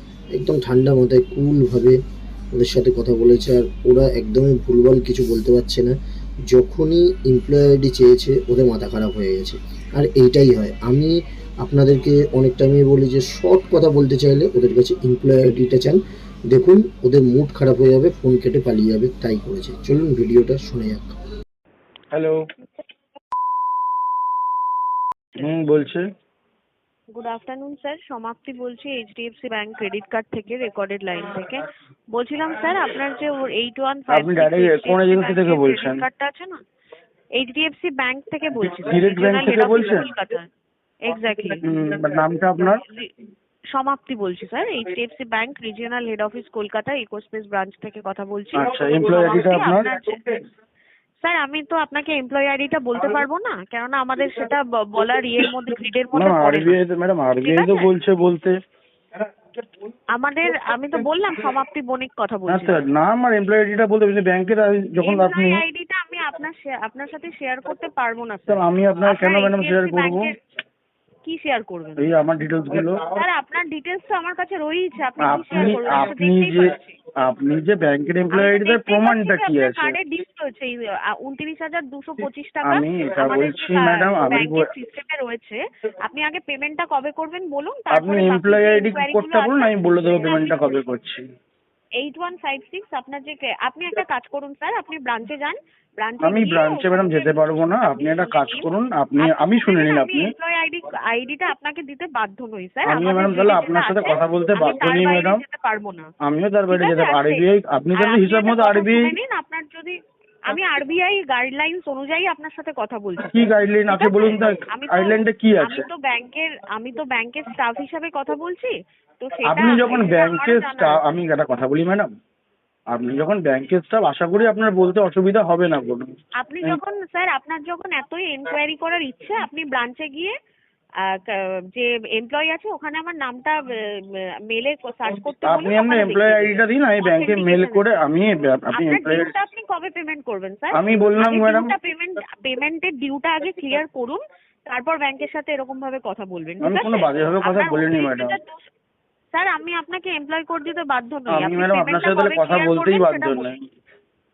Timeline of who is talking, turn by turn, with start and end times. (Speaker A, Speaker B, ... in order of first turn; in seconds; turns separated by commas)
Speaker A: 0.3-2.0, Speaker A: 2.5-6.0, Speaker A: 6.5-16.0, Speaker A: 16.5-21.1, Speaker B: 22.1-22.4, Speaker B: 25.4-26.1, Speaker C: 27.1-36.6, Speaker B: 34.1-36.0, Speaker C: 37.3-40.5, Speaker B: 38.7-40.1, Speaker C: 41.0-41.6, Speaker B: 41.6-42.8, Speaker C: 42.6-43.1, Speaker C: 43.7-50.2, Speaker B: 48.5-49.9, Speaker C: 51.2-56.8, Speaker B: 56.1-58.6, Speaker C: 57.4-57.9, Speaker C: 60.1-62.9, Speaker B: 62.5-65.6, Speaker C: 65.0-70.3, Speaker B: 68.5-70.3, Speaker C: 71.2-72.1, Speaker B: 72.0-73.0, Speaker C: 73.1-77.0, Speaker B: 75.2-80.0, Speaker C: 78.3-90.8, Speaker B: 82.7-84.7, Speaker B: 87.9-91.2, Speaker C: 92.0-97.4, Speaker B: 96.2-100.3, Speaker C: 98.0-106.1, Speaker B: 102.9-105.4, Speaker B: 106.2-109.1, Speaker C: 106.7-110.0, Speaker C: 110.5-121.0, Speaker B: 113.3-115.9, Speaker B: 119.5-122.1, Speaker B: 122.9-126.1, Speaker C: 126.4-130.3, Speaker C: 131.0-137.8, Speaker B: 135.4-139.3, Speaker C: 138.7-148.7, Speaker B: 140.7-141.7, Speaker B: 146.6-148.4, Speaker C: 149.3-153.5, Speaker B: 151.3-153.6